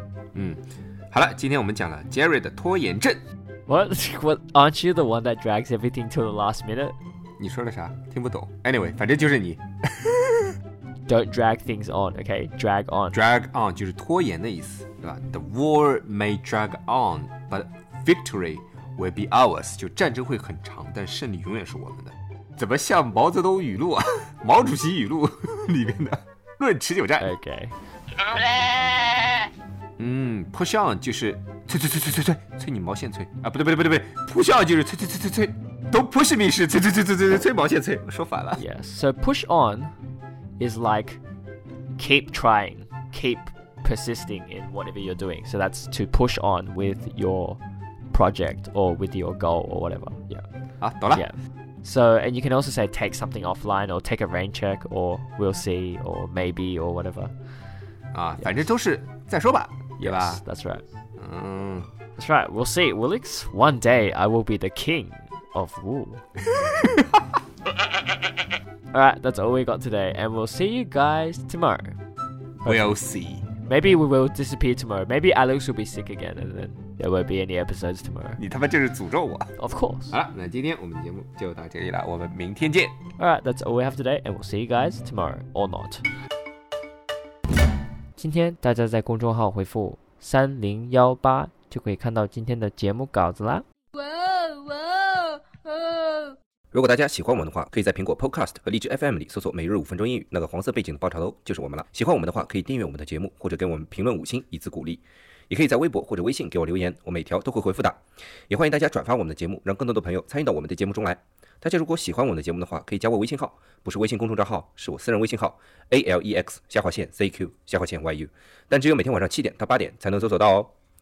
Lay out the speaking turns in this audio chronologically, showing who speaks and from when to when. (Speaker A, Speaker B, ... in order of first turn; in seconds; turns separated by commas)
Speaker A: 0.3-3.2, Speaker B: 3.7-6.9, Speaker A: 7.4-10.6, Speaker B: 11.1-13.2, Speaker A: 13.1-27.3, Speaker B: 27.2-27.7, Speaker A: 30.0-38.6, Speaker B: 38.5-39.9, Speaker B: 40.6-41.2, Speaker B: 42.0-47.6, Speaker B: 48.1-50.4, Speaker A: 50.8-51.2, Speaker B: 51.1-57.3, Speaker A: 58.1-60.4, Speaker B: 60.0-60.8, Speaker A: 61.2-61.9, Speaker B: 62.1-66.2, Speaker A: 66.5-67.2, Speaker B: 68.9-72.0, Speaker A: 72.6-73.5, Speaker B: 72.6-73.0, Speaker B: 73.6-78.4, Speaker A: 78.4-79.5, Speaker B: 79.6-80.1, Speaker A: 80.1-83.0, Speaker B: 83.2-86.0, Speaker B: 88.2-93.6, Speaker C: 93.9-96.4, Speaker A: 96.7-108.0, Speaker A: 108.5-120.7